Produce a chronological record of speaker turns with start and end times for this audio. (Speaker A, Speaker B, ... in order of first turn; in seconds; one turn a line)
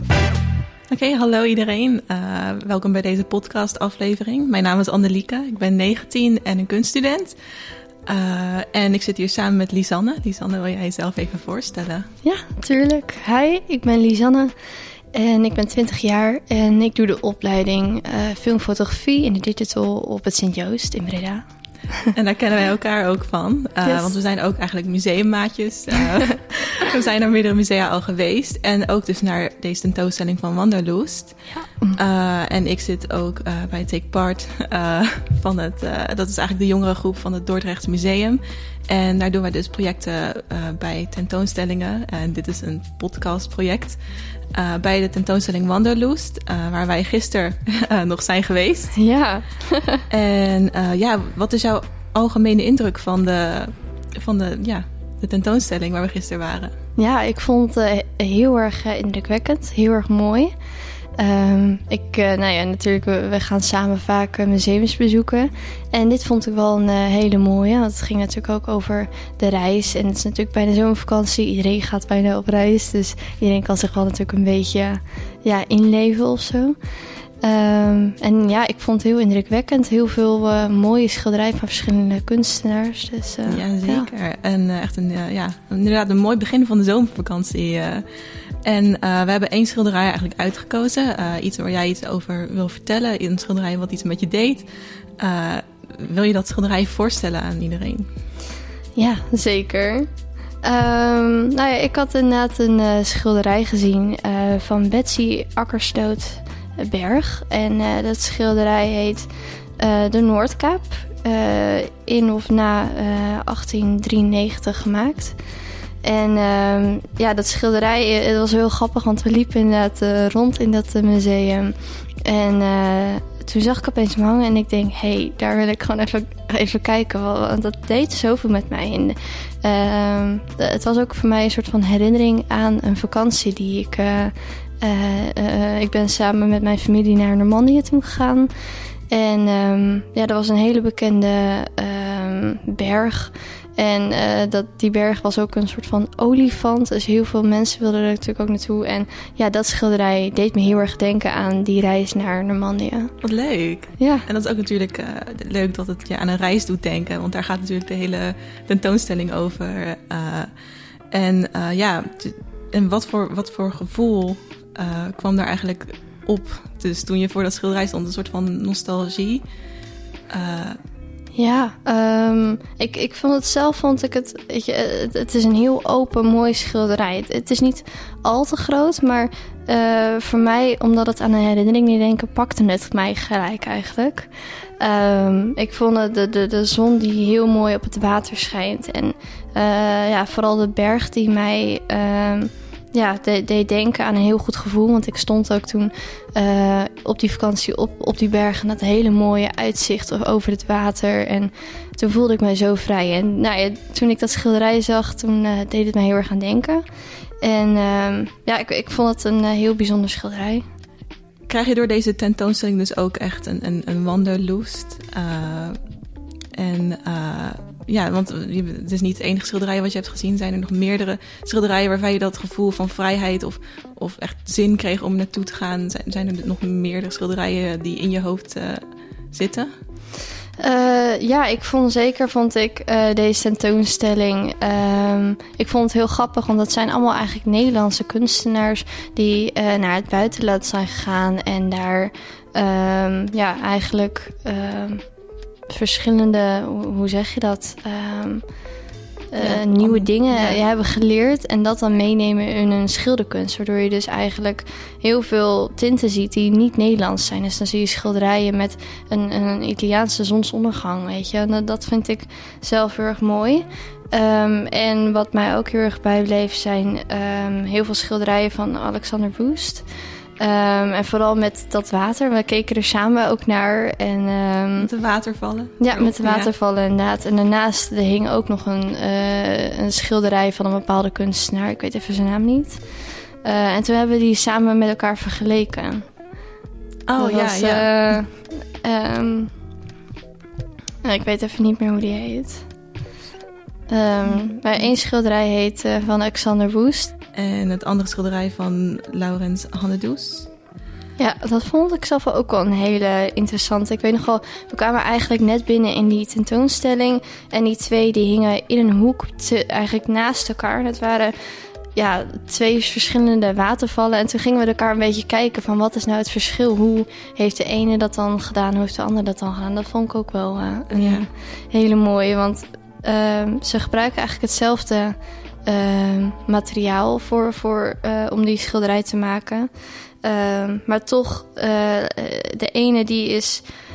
Speaker A: 0.9-7.3
Speaker A: 8.1-12.1
Speaker B: 12.2-14.5
Speaker B: 15.1-22.1
Speaker A: 22.1-44.0
Speaker B: 31.6-32.0
Speaker A: 44.5-48.9
Speaker B: 48.9-50.0
Speaker A: 50.1-56.7
Speaker B: 57.0-60.5
Speaker B: 61.2-76.8
Speaker B: 77.4-84.1
Speaker A: 83.5-88.0
Speaker A: 88.6-94.7
Speaker A: 95.2-98.1
Speaker B: 99.0-100.1
Speaker B: 100.6-115.3
Speaker B: 116.0-138.5
Speaker B: 139.1-153.1
Speaker A: 153.2-160.5
Speaker B: 154.0-154.2
Speaker A: 161.1-169.4
Speaker A: 170.3-170.8
Speaker B: 171.3-206.8
Speaker B: 207.4-210.6
Speaker A: 211.5-215.8
Speaker A: 216.6-228.8
Speaker A: 229.3-229.7
Speaker B: 230.6-245.0
Speaker B: 245.7-248.4
Speaker B: 249.3-269.9
Speaker A: 249.3-250.6
Speaker B: 270.4-274.9
Speaker A: 274.8-276.5
Speaker B: 275.8-282.8
Speaker B: 283.4-286.1
Speaker A: 287.1-288.1
Speaker B: 287.2-289.5
Speaker B: 291.0-292.6
Speaker B: 293.9-297.1
Speaker A: 294.2-294.9
Speaker A: 297.4-300.5
Speaker B: 301.2-311.3
Speaker B: 311.9-329.7
Speaker A: 320.9-321.3
Speaker B: 330.2-333.6